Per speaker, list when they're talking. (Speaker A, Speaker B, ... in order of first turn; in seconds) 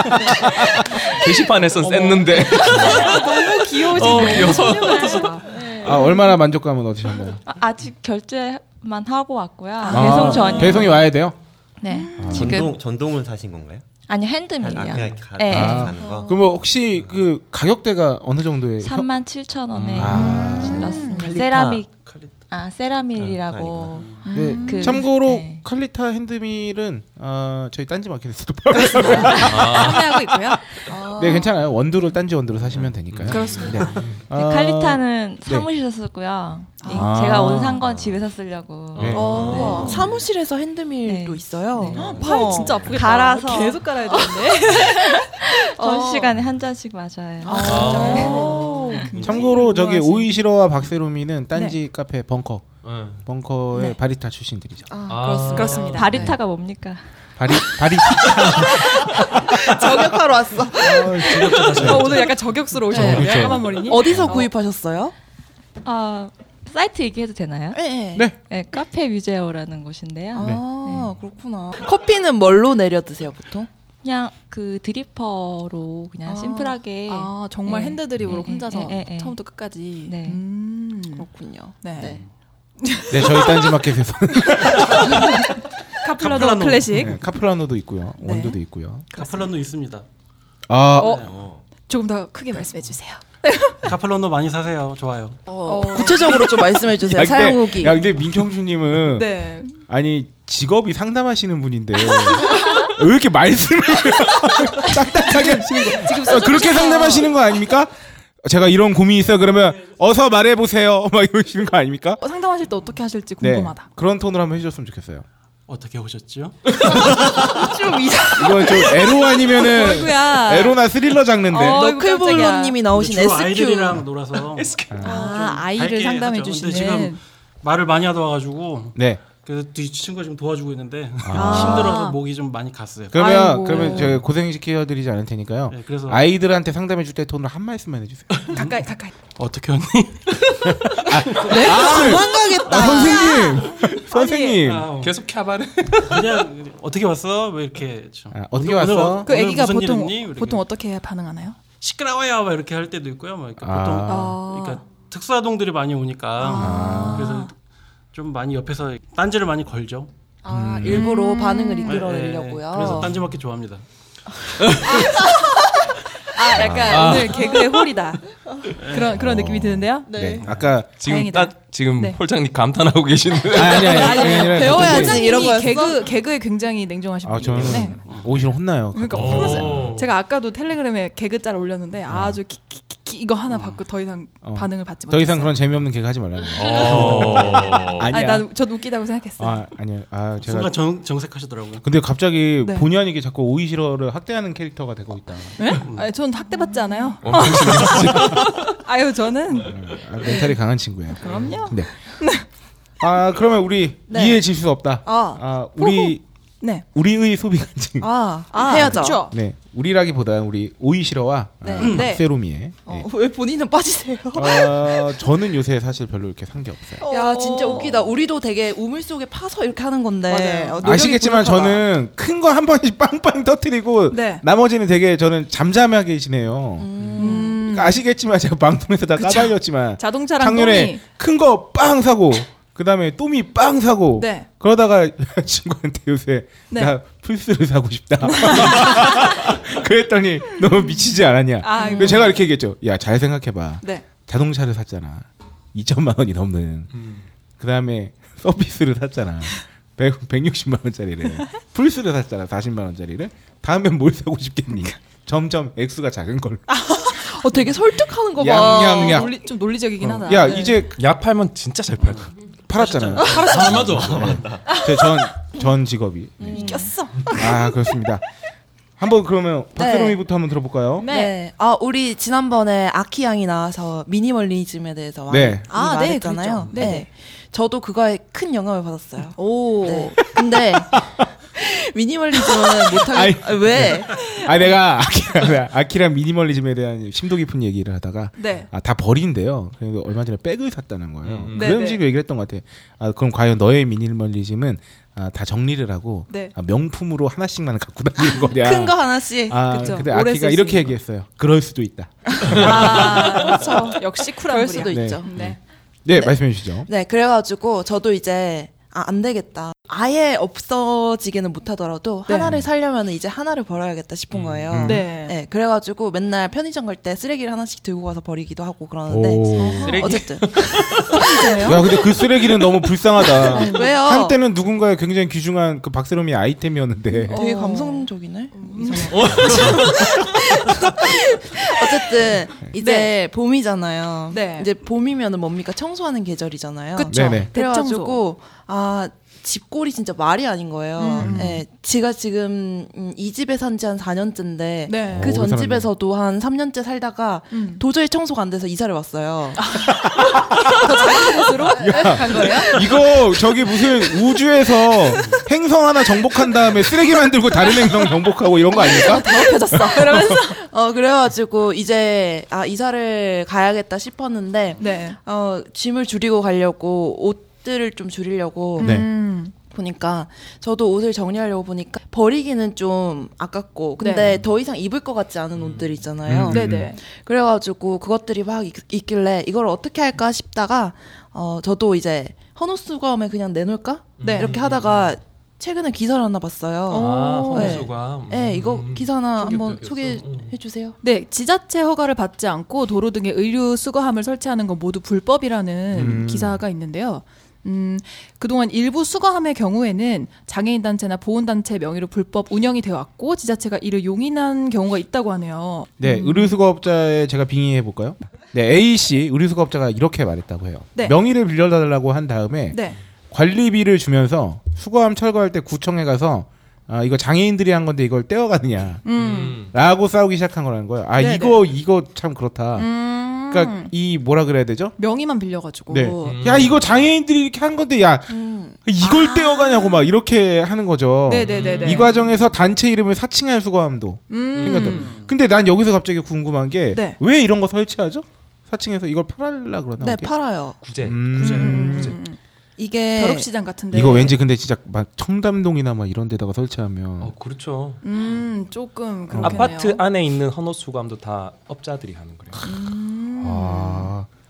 Speaker A: 1.1-5.3, 19.7-20.3, 29.4-30.1, 32.7-34.2, 38.9-40.1, 41.9-42.2, 47.5-48.4, 52.8-53.2, 55.1-56.3, 60.8-63.2, 124.5-125.0, 145.0-146.4, 164.6-165.1, 166.7-167.5, 170.4-174.4, 177.5-178.3, 179.1-180.1, 186.5-188.1, 197.2-198.7, 201.2-201.6, 246.9-247.2, 260.9-264.6, 291.2-291.7, 314.3-314.8, 319.8-321.2, 329.1-330.2, 375.5-376.0, 384.2-385.1, 386.9-390.5, 419.1-419.7, 426.2-427.0, 431.4-432.1, 434.6-435.3, 440.8-441.8, 447.2-448.0, 449.4-452.6
Speaker B: 1.8-5.7, 9.8-10.9, 11.9-12.3, 20.1-21.4, 24.2-25.1, 28.7-30.6, 33.3-34.0, 36.8-37.4, 39.2-39.9, 41.9-45.3, 45.8-46.1, 47.4-50.3, 55.4-56.3, 61.8-64.4, 77.1-81.3, 81.8-82.2, 82.8-83.8, 84.4-87.2, 88.2-88.6, 89.1-89.5, 90.9-91.3, 91.9-93.9, 95.6-96.7, 99.0-99.8, 105.0-107.4, 112.2-113.9, 116.8-120.9, 121.4-122.8, 125.0-127.2, 131.3-132.2, 133.1-134.2, 138.5-139.1, 141.4-144.8, 149.2-151.6, 154.0-154.8, 156.4-157.5, 160.9-162.1, 164.9-165.4, 166.3-168.3, 168.9-170.2, 171.0-172.2, 173.7-178.0, 178.9-185.6, 188.1-189.7, 192.6-192.9, 195.6-200.6, 201.2-202.4, 205.1-206.8, 208.5-209.3, 211.8-212.2, 217.0-217.9, 220.3-221.0, 224.1-224.4, 227.2-228.0, 229.2-231.0, 234.2-234.5, 236.7-236.9, 238.2-239.2, 241.6-242.4, 258.4-260.9, 262.8-264.0, 264.6-265.2, 266.5-267.8, 271.0-271.3, 275.7-277.1, 279.3-280.2, 288.4-288.7, 291.5-292.0, 296.3-296.5, 299.7-300.9, 302.5-305.6, 312.3-312.5, 314.8-315.3, 319.5-320.2, 321.4-321.8, 323.4-323.9, 327.2-330.0, 332.8-333.1, 334.3-334.7, 336.9-338.2, 341.0-341.6, 344.9-345.4, 347.5-347.8, 349.6-353.0, 357.6-358.1, 358.6-360.6, 364.8-365.2, 368.8-369.5, 374.0-374.4, 376.5-377.0, 384.2-384.6, 386.9-387.9, 391.0-406.6, 412.7-413.0, 419.0-419.7, 421.2-421.6, 422.7-423.9, 425.0-426.4, 429.0-430.0, 431.2-432.2, 434.3-435.2, 436.9-437.2, 441.3-442.4, 443.1-444.4, 448.0-450.0, 452.6-454.1
Speaker C: 4.2-5.2, 7.5-11.1, 11.8-12.7, 14.1-15.9, 18.8-21.9, 22.5-25.6, 34.3-39.9, 41.0-49.1, 55.9-57.0, 65.8-67.8, 68.5-71.1, 74.0-80.4
Speaker D: 5.5-6.0, 16.0-16.4, 30.9-31.5, 39.1-42.9, 45.8-46.3, 47.4-49.1, 54.9-56.0, 59.5-61.3, 62.9-65.1, 67.7-68.2, 70.3-73.7, 76.2-76.8, 81.1-82.2, 95.5-98.0, 121.5-124.0, 141.6-143.5, 160.4-163.1, 170.0-170.4, 174.4-176.0, 204.1-204.4, 208.0-209.2, 211.6-212.0, 212.8-215.1, 217.0-221.8, 226.8-227.6, 241.8-242.2, 256.7-259.2, 266.4-266.9, 269.8-270.2, 271.0-280.9, 281.5-284.1, 298.5-299.9, 303.4-305.3, 306.1-321.8, 323.4-324.4, 327.3-349.6, 352.1-352.6, 360.3-369.0, 369.5-390.9, 428.3-428.8, 440.0-440.8, 442.8-443.5
Speaker E: 5.8-7.4, 9.9-11.3, 12.2-12.6, 15.4-19.1, 19.9-20.9, 24.3-30.6, 31.1-35.7, 36.9-37.9, 39.0-40.0, 49.2-52.6, 53.2-54.9, 57.4-60.0, 60.8-62.2, 62.9-63.7, 70.4-70.6, 83.1-85.4, 86.9-89.1, 90.7-91.3, 97.0-107.9, 108.4-112.2, 113.4-115.2, 118.3-121.8, 124.9-125.3, 128.9-129.2, 131.2-132.0, 133.1-138.6, 140.8-144.9, 148.3-149.3, 153.6-154.4, 156.5-157.4, 160.5-161.1, 169.1-171.1, 173.5-175.3, 177.2-179.9, 182.1-182.4, 184.4-188.5, 189.4-190.8, 191.8-195.6, 197.3-198.4, 199.7-201.9, 203.0-206.2, 206.9-208.1, 208.7-213.1, 214.3-217.0, 220.8-246.9, 247.6-256.6, 258.4-259.4, 260.0-261.0, 262.7-268.2, 269.0-271.1, 275.3-275.6, 280.9-281.3, 282.5-303.6, 304.9-306.9, 314.7-315.0, 319.1-320.0, 321.6-327.4, 329.4-329.8, 337.1-337.5, 341.2-341.6, 345.1-345.9, 349.9-350.9, 351.7-360.4, 368.8-369.1, 376.3-376.9, 395.9-396.6, 406.0-412.8, 413.3-419.1, 419.7-424.9, 425.9-440.3, 441.0-442.2, 443.9-447.3, 449.3-449.7, 453.4-454.3
Speaker F: 12.3-13.8, 14.6-16.4, 21.1-21.8, 23.1-24.1, 91.2-91.6
Speaker G: 22.0-22.3, 23.9-24.2, 86.1-87.0, 89.1-90.0, 93.8-95.4, 115.7-116.8, 122.8-134.1, 135.7-136.2, 138.3-140.7, 144.6-145.2, 146.0-150.6, 151.8-157.5, 158.1-160.1, 161.8-163.8, 168.8-169.1, 183.5-183.8, 190.4-191.9, 195.8-196.1, 211.8-212.1